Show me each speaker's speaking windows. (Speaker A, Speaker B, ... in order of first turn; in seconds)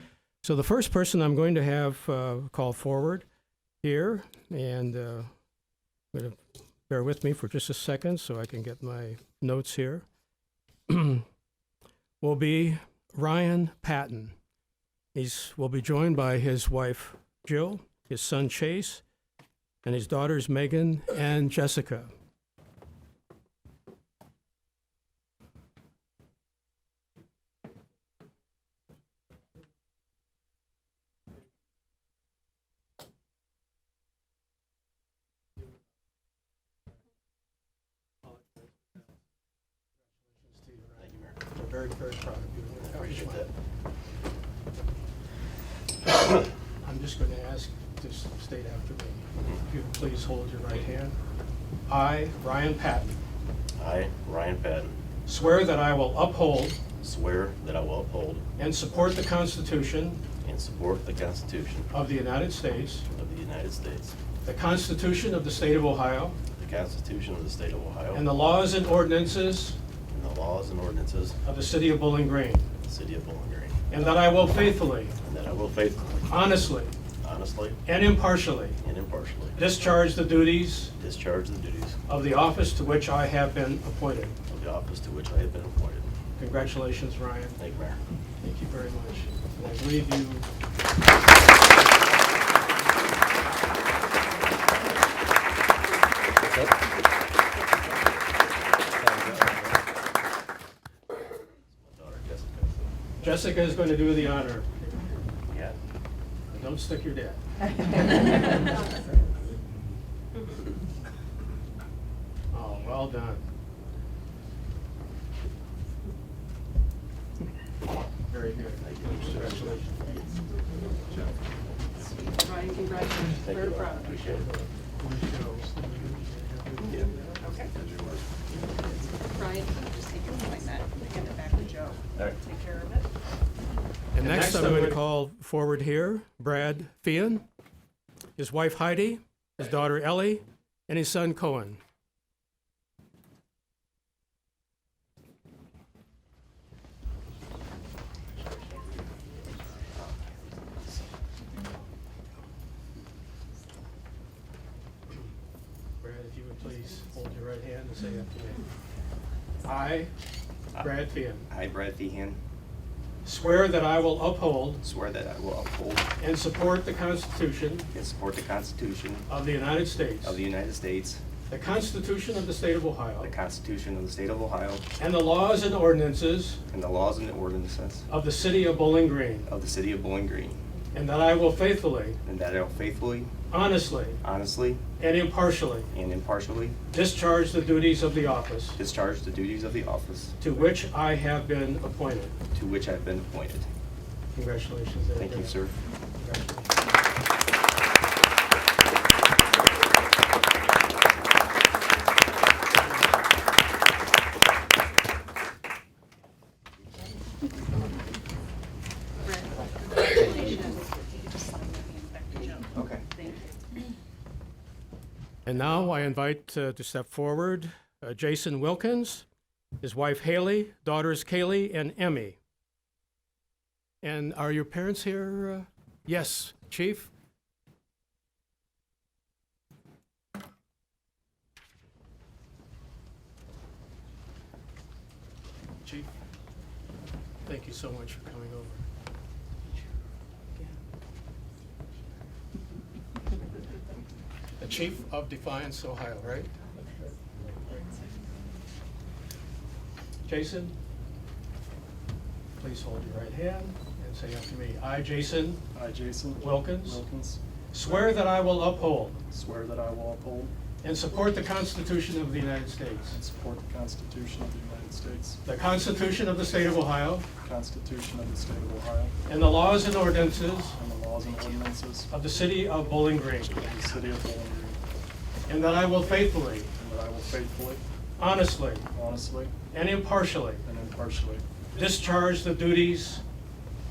Speaker A: 0.4-3.2, 3.8-5.3, 6.1-6.4, 6.9-10.0, 10.9-11.2, 12.2-14.3, 15.1-19.0, 19.8-22.1, 40.1-43.5, 46.8-51.2, 51.9-53.1, 55.2-56.8, 58.6-60.2, 61.9-63.0, 64.4-66.3, 68.1-69.8, 71.4-72.7, 73.9-75.1, 76.3-76.9, 77.8-78.8, 79.5-80.9, 82.1-84.3, 86.4-87.6, 88.4-90.5, 92.0-92.6, 103.2-104.7, 106.5-107.4, 112.5-113.4, 118.3-120.2, 124.4-127.4, 134.1-137.4, 138.4-141.8, 156.0-158.6, 159.6-160.1, 160.8-161.5, 163.2-164.8, 166.2-167.9, 169.3-170.4, 171.5-173.3, 175.0-176.6, 178.1-179.5, 180.9-182.2, 183.5-184.2, 185.0-185.9, 186.9-188.8, 190.4-192.3, 194.3-195.6, 196.1-196.8, 215.4-219.2, 219.8-222.4, 224.0-227.1, 235.8-236.1, 237.4-238.8, 244.6-246.5, 250.2-250.7, 252.6-255.6, 256.4-257.0, 257.7-259.2, 260.8-263.2, 265.4-267.3, 269.2-270.8, 272.1-273.6, 275.5-276.7, 278.2-278.9, 279.7-280.6, 281.7-283.2
Speaker B: 41.0-41.4, 42.8-43.5, 53.8-55.0, 57.0-58.4, 60.4-61.9, 63.1-64.2, 66.5-68.2, 70.1-71.4, 72.8-73.8, 75.2-76.3, 77.2-77.8, 78.8-79.5, 81.0-82.0, 84.5-86.1, 87.6-88.0, 98.9-99.6, 101.8-102.8, 105.5-105.8, 118.8-119.8, 123.4-124.5
Speaker C: 122.3-124.2, 127.4-127.7, 129.3-133.1, 209.2-213.6
Speaker D: 161.5-162.4, 164.8-166.1, 167.9-169.2, 170.2-171.2, 173.2-174.8, 176.7-178.1, 179.5-180.6, 182.2-183.3, 184.2-184.8, 185.9-186.8, 188.8-190.4, 192.5-193.7, 195.2-195.8, 212.7-213.0
Speaker E: 255.7-257.4, 259.3-260.5, 263.1-265.4, 267.4-269.1, 270.7-272.1, 273.5-274.8, 276.8-277.8, 278.9-279.5, 280.6-281.4